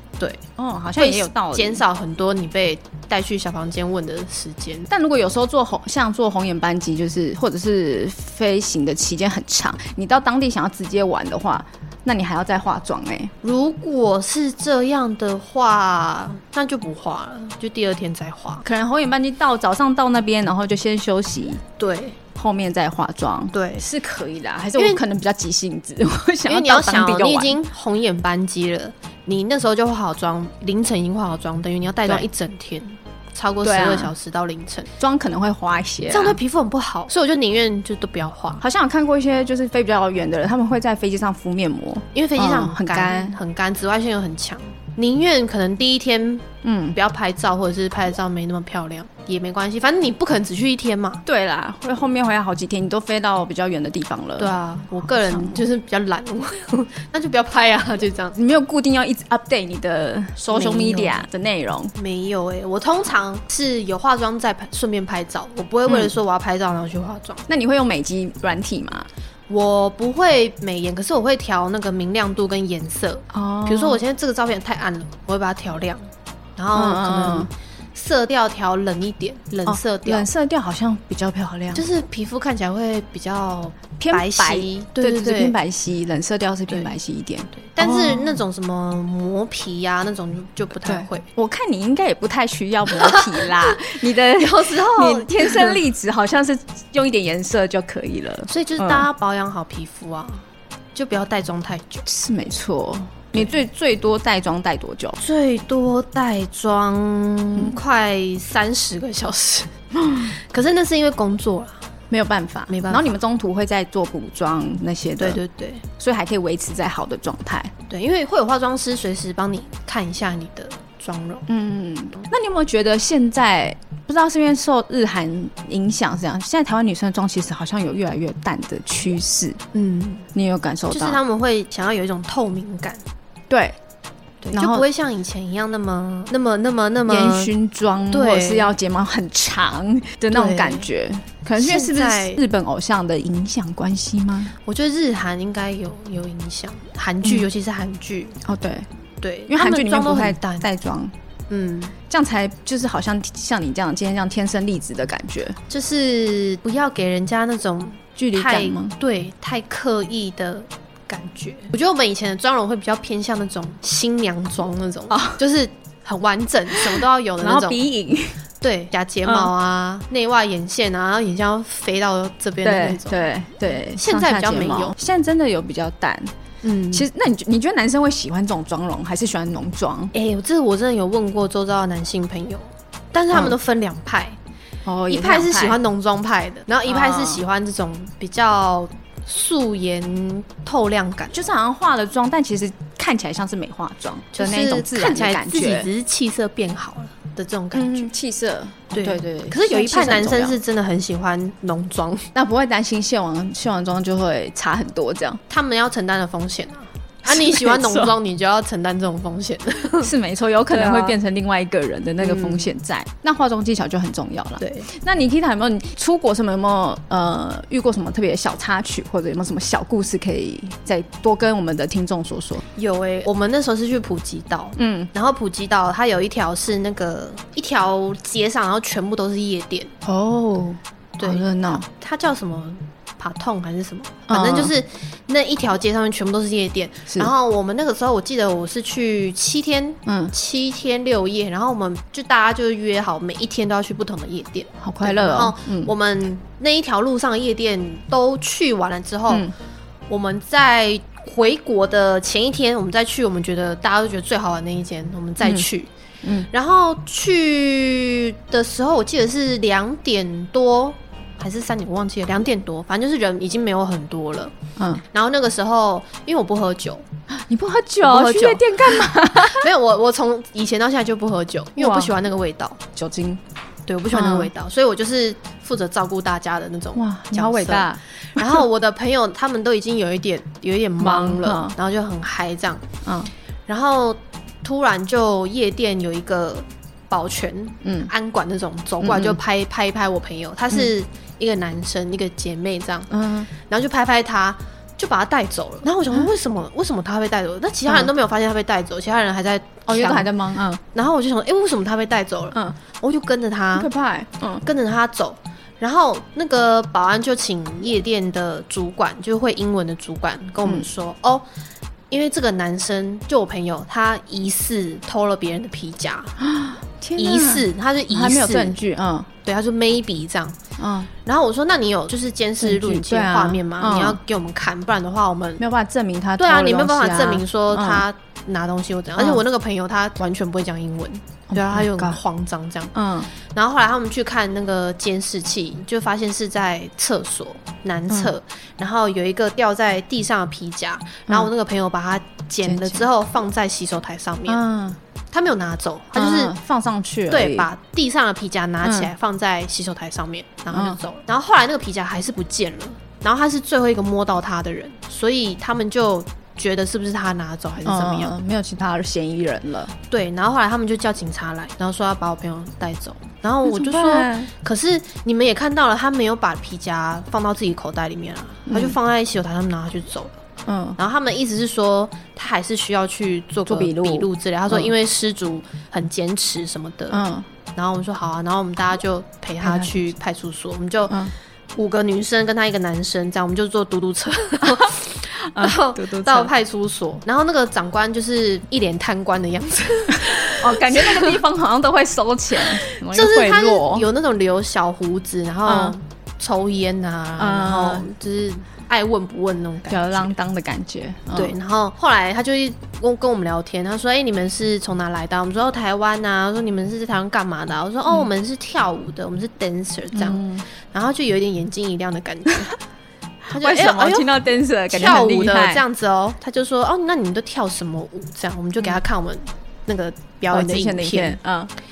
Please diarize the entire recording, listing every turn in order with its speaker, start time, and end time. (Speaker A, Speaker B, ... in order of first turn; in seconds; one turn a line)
Speaker A: 0.2-0.4
Speaker B: 0.6-1.8
Speaker A: 1.0-4.9
Speaker B: 4.9-13.3
Speaker A: 13.4-18.6
Speaker B: 18.6-21.6
Speaker A: 21.8-22.2
Speaker B: 22.4-27.6
Speaker A: 23.5-23.9
Speaker A: 24.8-25.0
Speaker A: 26.5-34.9
Speaker B: 33.6-34.1
Speaker B: 35.0-36.4
Speaker A: 36.1-38.6
Speaker B: 38.6-43.4
Speaker A: 42.1-51.2
Speaker B: 46.6-47.0
Speaker B: 51.2-55.6
Speaker A: 54.4-58.4
Speaker B: 58.4-61.9
Speaker A: 60.5-61.2
Speaker A: 62.0-67.4
Speaker B: 65.9-66.1
Speaker B: 67.5-69.1
Speaker A: 69.5-80.3
Speaker B: 73.3-74.0
Speaker B: 76.7-77.5
Speaker B: 79.7-81.8
Speaker A: 81.7-85.5
Speaker B: 84.0-88.4
Speaker A: 86.7-86.9
Speaker A: 87.5-91.2
Speaker B: 90.8-99.1
Speaker A: 92.9-93.8
Speaker A: 94.4-95.8
Speaker A: 98.5-102.0
Speaker B: 102.0-105.2
Speaker A: 105.2-111.8
Speaker B: 109.9-110.3
Speaker B: 112.1-115.4
Speaker A: 112.7-113.2
Speaker A: 115.2-115.8
Speaker B: 116.0-117.7
Speaker A: 117.9-121.5
Speaker B: 121.5-129.6
Speaker A: 129.7-130.3
Speaker B: 130.3-131.2
Speaker A: 130.9-133.0
Speaker B: 133.5-133.8
Speaker A: 134.4-137.5
Speaker B: 134.5-134.8
Speaker B: 137.1-144.5
Speaker A: 138.1-138.7
Speaker A: 140.3-140.9
Speaker A: 141.6-142.4
Speaker A: 144.6-148.4
Speaker B: 148.4-148.9
Speaker A: 149.2-150.7
Speaker B: 149.5-151.1
Speaker A: 151.5-151.9
Speaker B: 152.1-155.6
Speaker A: 155.7-167.8
Speaker B: 158.2-158.9
Speaker B: 165.1-165.4
Speaker B: 166.7-168.4
Speaker A: 168.6-173.2
Speaker B: 169.2-169.5
Speaker B: 172.6-176.3
Speaker A: 173.9-174.9
Speaker A: 176.6-177.1
Speaker B: 176.9-180.1
Speaker A: 180.1-184.4
Speaker B: 184.8-185.8
Speaker A: 185.1-191.4
Speaker B: 186.9-187.4
Speaker B: 191.3-195.9
Speaker A: 194.3-198.1
Speaker B: 197.7-200.6
Speaker A: 198.9-202.3
Speaker B: 202.3-205.4
Speaker A: 205.5-210.1
Speaker B: 207.2-208.1
Speaker B: 210.0-222.6
Speaker A: 210.7-211.2
Speaker A: 212.2-212.7
Speaker A: 214.6-214.9
Speaker A: 222.7-229.9
Speaker B: 224.8-225.1
Speaker B: 230.0-231.8
Speaker A: 231.2-249.5
Speaker B: 234.3-234.7
Speaker B: 240.1-240.3
Speaker B: 244.8-245.9
Speaker A: 250.1-255.9
Speaker B: 255.4-255.7
Speaker A: 256.5-264.5
Speaker B: 264.8-265.0
Speaker A: 265.0-267.0
Speaker B: 267.3-269.7
Speaker A: 268.0-272.8
Speaker B: 271.8-272.1
Speaker B: 272.9-273.4
Speaker A: 273.9-282.8
Speaker B: 274.1-274.5
Speaker B: 276.9-278.6
Speaker B: 281.0-281.7
Speaker B: 283.0-283.3
Speaker A: 283.7-300.3
Speaker B: 287.8-288.1
Speaker B: 289.0-289.4
Speaker B: 293.1-293.5
Speaker B: 297.9-298.1
Speaker B: 299.9-300.8
Speaker A: 300.9-303.9
Speaker B: 303.7-304.6
Speaker A: 304.6-311.4
Speaker A: 312.1-316.4
Speaker B: 316.4-319.3
Speaker A: 317.2-318.8
Speaker A: 319.4-320.6
Speaker B: 320.8-321.1
Speaker A: 321.2-325.6
Speaker B: 322.6-324.2
Speaker B: 325.6-328.0
Speaker A: 326.4-344.6
Speaker B: 331.5-332.2
Speaker B: 332.9-333.3
Speaker B: 342.6-343.0
Speaker B: 344.5-345.0
Speaker A: 345.3-346.5
Speaker B: 346.1-347.7
Speaker A: 347.3-358.3
Speaker B: 348.8-349.1
Speaker B: 350.7-351.0
Speaker B: 357.8-359.9
Speaker A: 360.0-370.4
Speaker B: 363.6-364.5
Speaker B: 368.7-369.0
Speaker B: 370.6-371.0
Speaker A: 370.9-377.2
Speaker B: 373.7-374.9
Speaker B: 377.1-377.5
Speaker A: 377.7-391.4
Speaker B: 379.6-380.1
Speaker B: 384.7-386.5
Speaker B: 390.6-394.1
Speaker A: 392.6-400.3
Speaker B: 395.7-395.9
Speaker B: 397.4-398.1
Speaker B: 399.9-401.5
Speaker A: 401.3-412.8
Speaker B: 410.1-410.6
Speaker A: 413.5-421.4
Speaker B: 413.5-415.8
Speaker B: 420.5-421.7